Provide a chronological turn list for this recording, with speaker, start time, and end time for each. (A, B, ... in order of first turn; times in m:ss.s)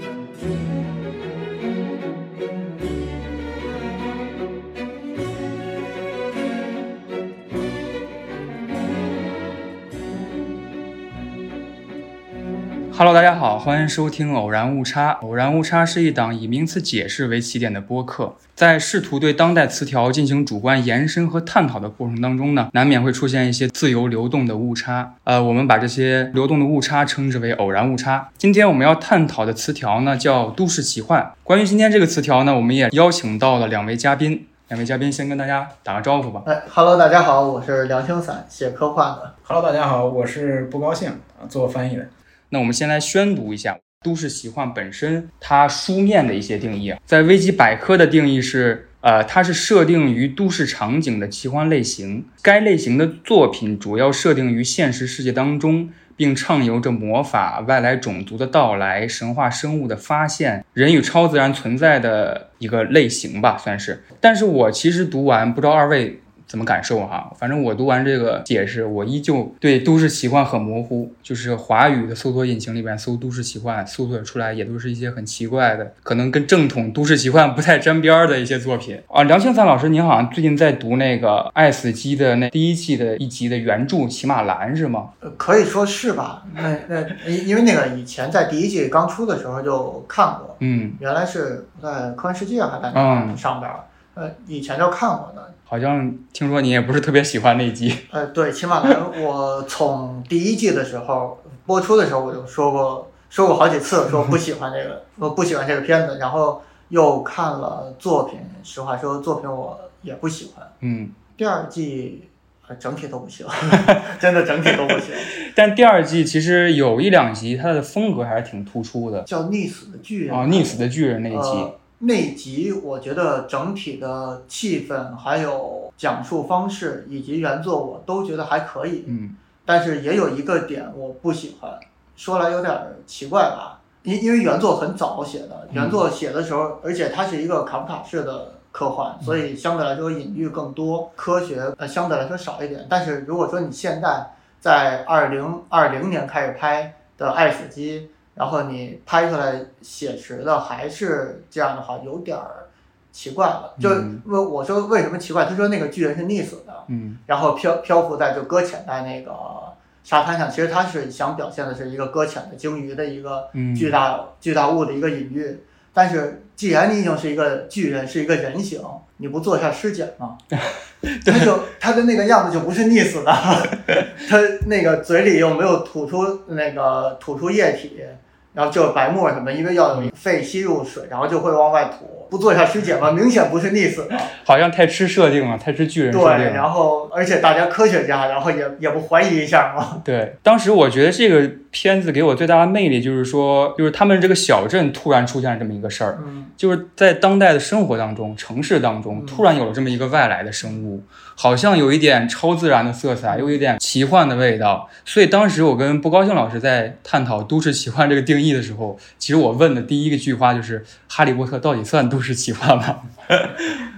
0:12.9-0:36.5 A
0:36.4-0:39.3 B
0:39.4-0:42.1 C
0:42.5-1:25.1 A
1:25.2-1:35.6 B
1:30.6-1:31.0 A
1:32.9-1:33.4 A
1:35.7-1:38.0 A
1:38.1-1:50.7 B
1:50.8-1:51.1 A
1:51.4-1:55.4 B
1:53.8-1:54.1 A
1:55.3-1:59.3 A
1:59.3-2:09.2 B
2:00.3-2:01.7 A
2:09.1-2:09.4 A
2:09.7-2:50.4 B
2:15.7-2:16.0 A
2:33.8-2:34.2 A
2:36.9-2:37.2 A
2:43.5-2:44.0 A
2:51.1-2:51.5 A
2:51.2-3:04.3 B
3:04.3-3:06.7 A
3:06.1-3:10.0 B
3:10.0-3:33.8 A
3:16.2-3:16.5 B
3:19.1-3:19.4 B